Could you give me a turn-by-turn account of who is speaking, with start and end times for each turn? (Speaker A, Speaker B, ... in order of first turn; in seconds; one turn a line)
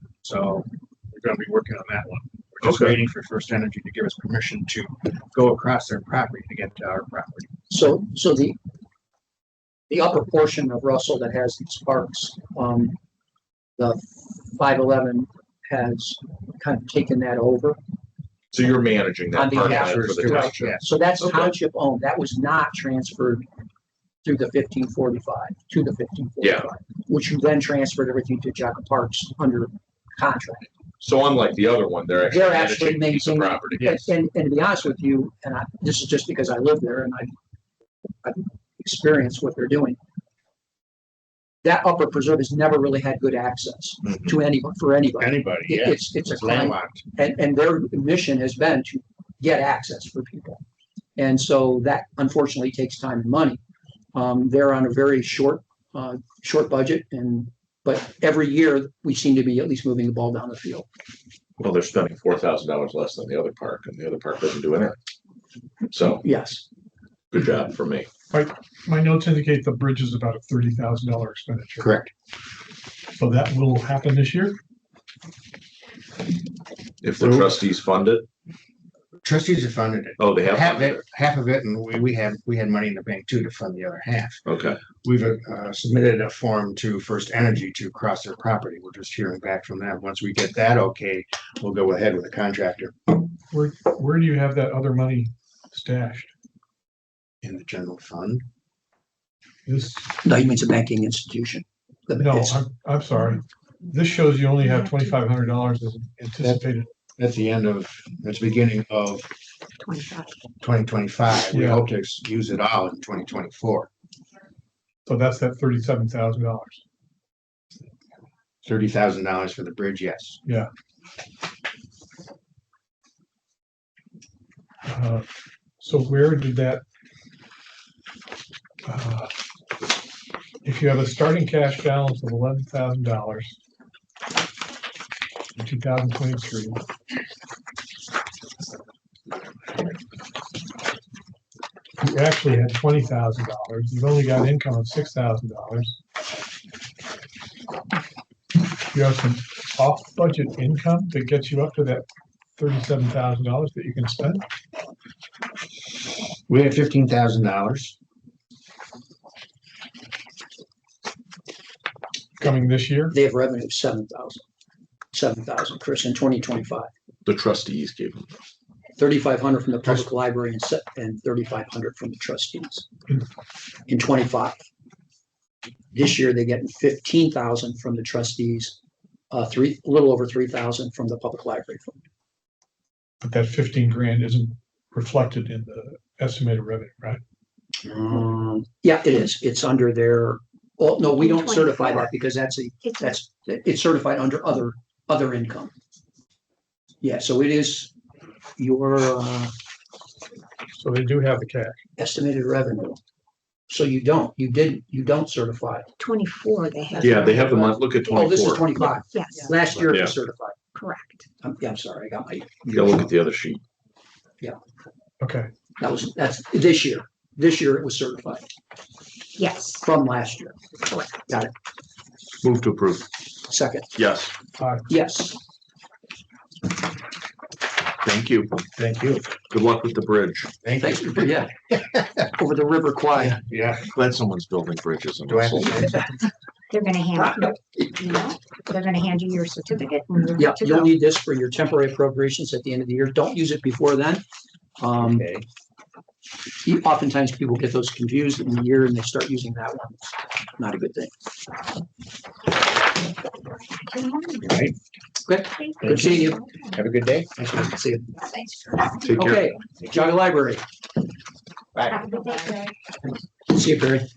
Speaker A: 0.2-7.5
Speaker B: 2.6-3.0
Speaker C: 7.7-8.6
Speaker C: 9.9-13.0
Speaker C: 13.8-17.8
Speaker B: 18.5-20.7
Speaker C: 19.3-23.5
Speaker A: 19.6-20.9
Speaker B: 21.2-21.5
Speaker C: 24.2-30.7
Speaker B: 26.4-26.7
Speaker B: 31.0-34.1
Speaker C: 32.3-37.3
Speaker C: 38.2-40.0
Speaker C: 41.6-50.6
Speaker A: 45.2-47.0
Speaker C: 51.2-53.6
Speaker C: 54.1-60.9
Speaker B: 61.6-65.0
Speaker B: 65.9-66.3
Speaker C: 66.2-66.6
Speaker B: 67.3-68.1
Speaker D: 68.3-71.9
Speaker A: 71.8-72.1
Speaker D: 73.1-74.6
Speaker B: 77.0-78.3
Speaker A: 79.2-84.4
Speaker B: 80.2-81.0
Speaker B: 84.5-84.8
Speaker A: 85.0-93.0
Speaker D: 93.5-96.3
Speaker A: 97.4-98.4
Speaker D: 99.7-100.1
Speaker C: 100.2-102.7
Speaker D: 102.2-106.9
Speaker A: 107.2-109.3
Speaker E: 109.8-110.4
Speaker A: 110.6-113.9
Speaker D: 111.5-111.8
Speaker D: 115.1-116.8
Speaker A: 118.6-120.4
Speaker D: 124.9-125.2
Speaker D: 125.8-126.8
Speaker D: 128.8-129.3
Speaker D: 130.6-133.6
Speaker D: 135.6-136.8
Speaker D: 142.0-146.0
Speaker D: 148.9-152.1
Speaker D: 152.6-154.4
Speaker A: 156.5-158.0
Speaker D: 162.4-163.2
Speaker C: 163.1-164.4
Speaker C: 165.1-166.9
Speaker B: 167.2-168.2
Speaker C: 169.0-172.8
Speaker C: 173.9-174.6
Speaker C: 175.9-178.8
Speaker C: 179.3-182.0
Speaker D: 183.2-187.2
Speaker C: 187.8-195.7
Speaker E: 191.1-192.1
Speaker E: 192.8-193.2
Speaker C: 197.0-197.9
Speaker C: 198.6-199.5
Speaker D: 200.8-201.8
Speaker C: 202.0-203.0
Speaker C: 203.7-205.9
Speaker E: 206.0-207.6
Speaker B: 207.0-208.9
Speaker C: 207.5-210.6
Speaker E: 209.1-209.5
Speaker B: 209.9-210.1
Speaker E: 210.8-211.2
Speaker C: 211.4-213.1
Speaker B: 212.7-213.6
Speaker D: 215.2-215.5
Speaker C: 215.8-218.5
Speaker E: 219.4-219.8
Speaker C: 219.8-220.6
Speaker E: 220.9-221.2
Speaker C: 221.3-221.5
Speaker B: 222.4-223.1
Speaker C: 223.5-223.9
Speaker B: 223.9-224.3
Speaker D: 224.6-224.9
Speaker C: 224.9-225.4
Speaker B: 228.0-228.6
Speaker A: 228.7-229.2
Speaker B: 229.4-230.5
Speaker A: 230.6-232.0
Speaker C: 230.8-231.5
Speaker C: 232.4-233.4
Speaker A: 233.2-233.9
Speaker B: 233.9-236.1
Speaker A: 235.3-236.1
Speaker E: 236.7-240.9
Speaker C: 237.2-237.5
Speaker C: 240.4-244.2
Speaker C: 244.8-245.3
Speaker A: 245.0-245.5
Speaker C: 246.6-251.1
Speaker E: 253.8-254.6
Speaker A: 254.4-254.7
Speaker C: 255.3-256.4
Speaker E: 255.6-256.8
Speaker A: 255.8-257.5
Speaker C: 257.4-258.1
Speaker E: 258.1-258.9
Speaker B: 259.0-259.5
Speaker C: 259.1-260.6
Speaker A: 261.8-262.0
Speaker E: 261.9-262.6
Speaker C: 263.5-264.1